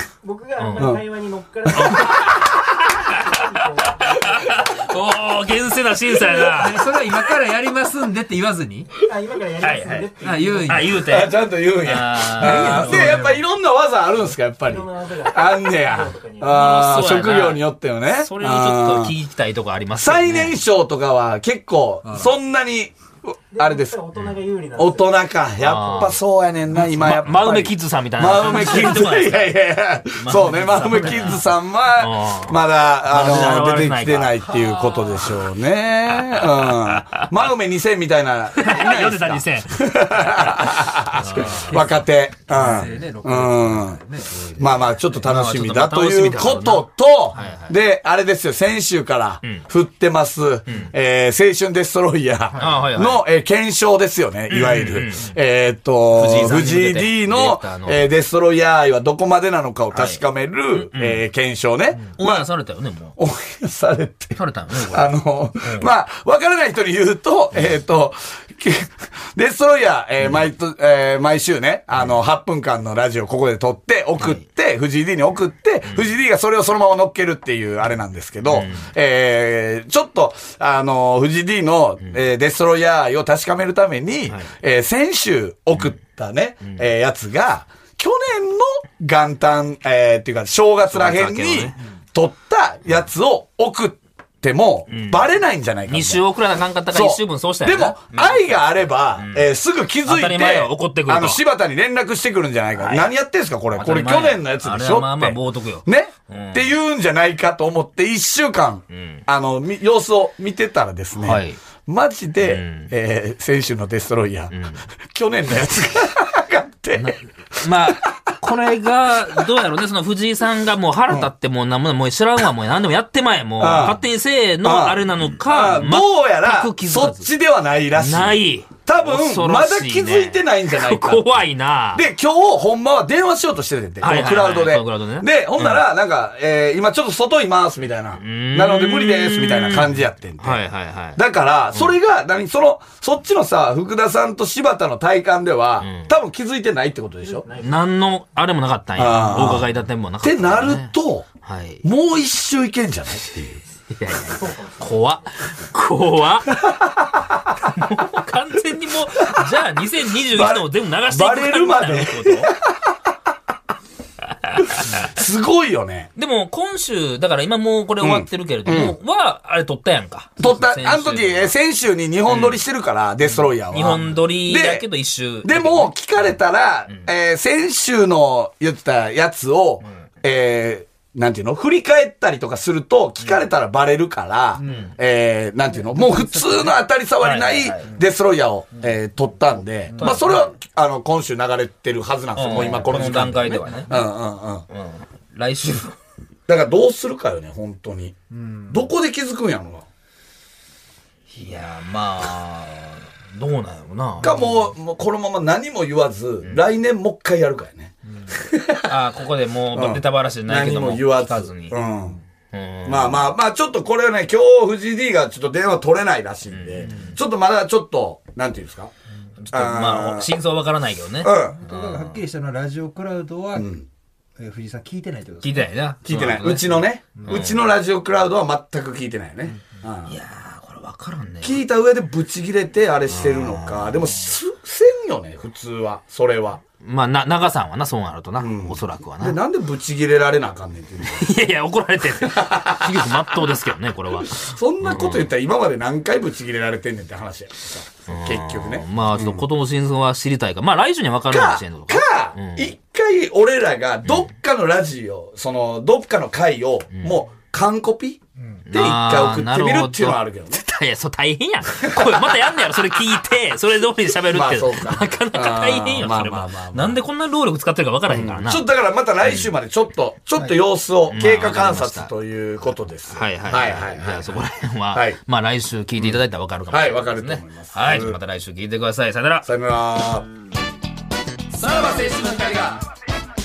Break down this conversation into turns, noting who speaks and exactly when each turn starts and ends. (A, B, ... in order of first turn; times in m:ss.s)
0:00.2-0:02.0 A
0:00.6-0:01.0 B
0:00.8-0:01.0 C
0:01.7-0:06.9 B
0:03.1-0:04.8 A
0:06.2-0:09.0 D
0:09.0-0:10.8 A
0:09.6-0:13.2 B
0:10.2-0:10.9 D
0:10.9-0:19.2 C
0:12.4-0:13.4 D
0:14.7-0:16.5 A
0:16.4-0:17.6 B
0:18.2-0:20.6 B
0:20.0-0:24.0 C
0:22.0-0:22.3 D
0:23.6-0:25.0 A
0:24.1-0:24.4 B
0:24.7-0:44.0 C
0:25.6-0:26.2 B
0:26.7-0:35.4 B
0:36.2-0:36.9 B
0:38.5-0:41.8 B
0:41.4-0:44.4 D
0:42.5-0:42.9 B
0:44.3-0:47.8 B
0:44.6-1:02.5 C
0:52.5-0:52.8 D
0:52.6-0:53.2 B
0:54.5-0:55.4 B
0:56.1-0:58.0 B
0:59.9-1:01.2 B
1:02.1-1:03.2 B
1:03.2-1:36.2 C
1:04.3-1:05.9 B
1:07.5-1:07.8 B
1:10.2-1:10.4 B
1:18.5-1:18.9 B
1:30.9-1:31.8 B
1:34.9-1:35.3 B
1:35.9-1:39.5 B
1:36.9-1:54.5 C
1:40.0-1:41.4 B
1:42.7-1:43.1 B
1:43.7-1:46.7 B
1:48.9-1:49.2 B
1:51.2-1:51.6 B
1:52.4-1:52.9 B
1:54.5-1:54.9 B
1:55.1-1:58.2 C
1:56.9-2:07.3 B
2:03.6-2:04.0 C
2:04.6-2:20.6 C
2:08.0-2:12.0 B
2:14.0-2:15.8 B
2:18.2-2:21.2 B
2:21.1-2:27.5 C
2:25.8-2:26.1 B
2:27.5-2:31.8 B
2:29.0-2:29.7 C
2:30.2-2:31.3 C
2:31.8-2:33.6 C
2:33.9-2:36.7 B
2:37.6-2:42.5 B
2:40.3-2:42.9 C
2:44.5-2:45.1 B
2:44.6-2:46.1 C
2:46.2-2:51.5 B
2:48.0-2:49.0 C
2:50.4-2:54.9 C
2:52.2-2:52.6 B
2:53.2-2:56.2 B
2:55.4-3:14.6 C
3:03.2-3:03.4 B
3:04.6-3:04.9 B
3:04.6-3:04.9 D
3:05.7-3:06.8 D
3:07.2-3:07.9 B
3:09.9-3:10.4 D
3:10.0-3:10.5 B
3:12.3-3:14.0 B
3:13.6-3:14.0 D
3:14.7-3:16.0 B
3:16.5-3:18.1 C
3:18.3-3:18.9 D
3:18.7-3:19.8 C
3:21.3-3:24.4 B
3:24.2-3:29.0 C
3:24.2-3:24.5 D
3:28.8-3:31.8 B
3:29.7-3:32.2 C
3:32.5-3:33.3 B
3:32.8-3:38.9 C
3:36.5-3:37.2 B
3:39.4-3:42.2 B
3:39.5-3:40.3 C
3:41.2-3:41.6 C
3:41.6-3:43.7 D
3:43.5-3:43.8 C
3:44.4-3:45.7 D
3:45.4-3:47.6 B
3:46.0-3:50.1 C
3:47.2-3:47.4 D
3:50.0-3:51.6 B
3:51.4-3:56.6 C
3:53.1-3:54.3 B
3:56.8-3:59.4 B
3:58.4-4:01.3 C
4:01.0-4:05.3 B
4:02.2-4:03.2 C
4:04.2-4:09.4 C
4:08.1-4:12.7 B
4:11.3-4:20.6 C
4:16.9-4:17.2 B
4:18.7-4:28.7 B
4:21.8-4:22.5 C
4:24.2-4:27.0 C
4:28.1-4:35.2 C
4:29.2-4:29.5 B
4:31.1-4:32.1 B
4:33.1-4:39.5 B
4:36.7-4:38.2 C
4:39.4-4:40.3 C
4:41.5-4:42.8 C